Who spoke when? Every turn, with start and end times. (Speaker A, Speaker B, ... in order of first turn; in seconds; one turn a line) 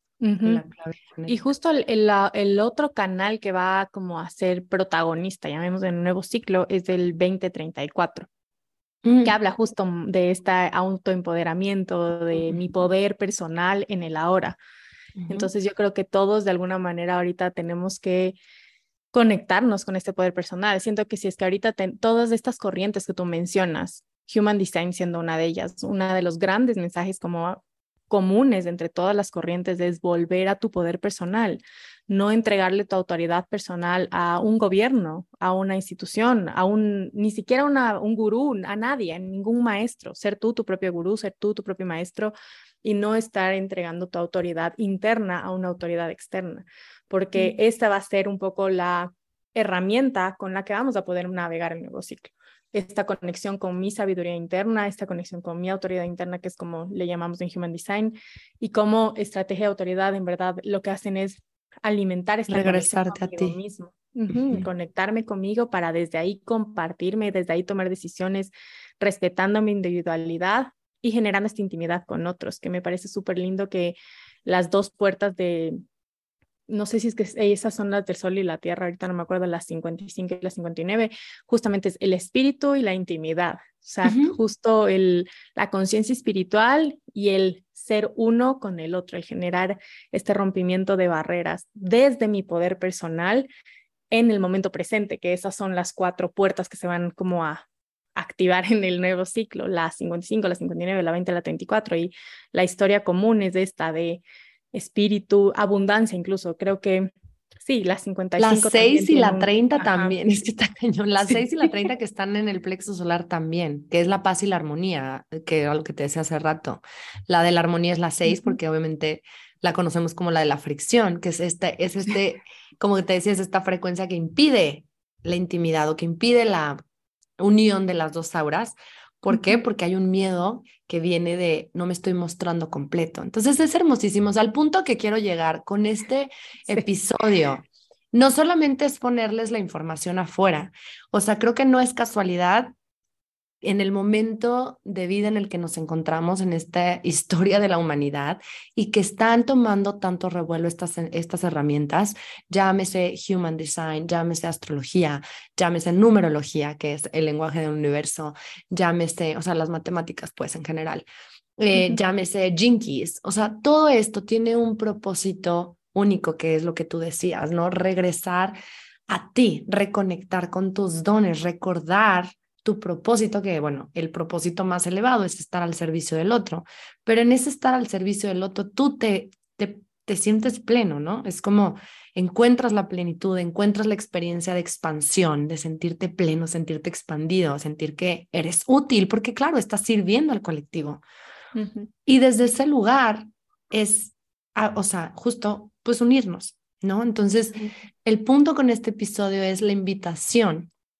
Speaker A: 0.2-0.6
Speaker B: 0.4-1.4
Speaker A: 1.3-8.3
Speaker B: 9.0-9.3
Speaker A: 9.2-14.6
Speaker B: 15.2-15.5
Speaker A: 15.3-18.4
Speaker A: 19.1-75.8
Speaker B: 62.5-63.6
Speaker A: 76.7-93.5
Speaker B: 84.0-84.4
Speaker A: 94.1-104.2
Speaker A: 104.7-110.1
Speaker B: 108.4-126.8
Speaker A: 118.3-118.5
Speaker B: 127.4-142.7
Speaker A: 129.3-129.6
Speaker B: 143.6-161.1
Speaker B: 161.6-168.6
Speaker A: 161.7-162.0
Speaker B: 169.1-191.0
Speaker A: 191.5-191.9
Speaker B: 192.1-200.7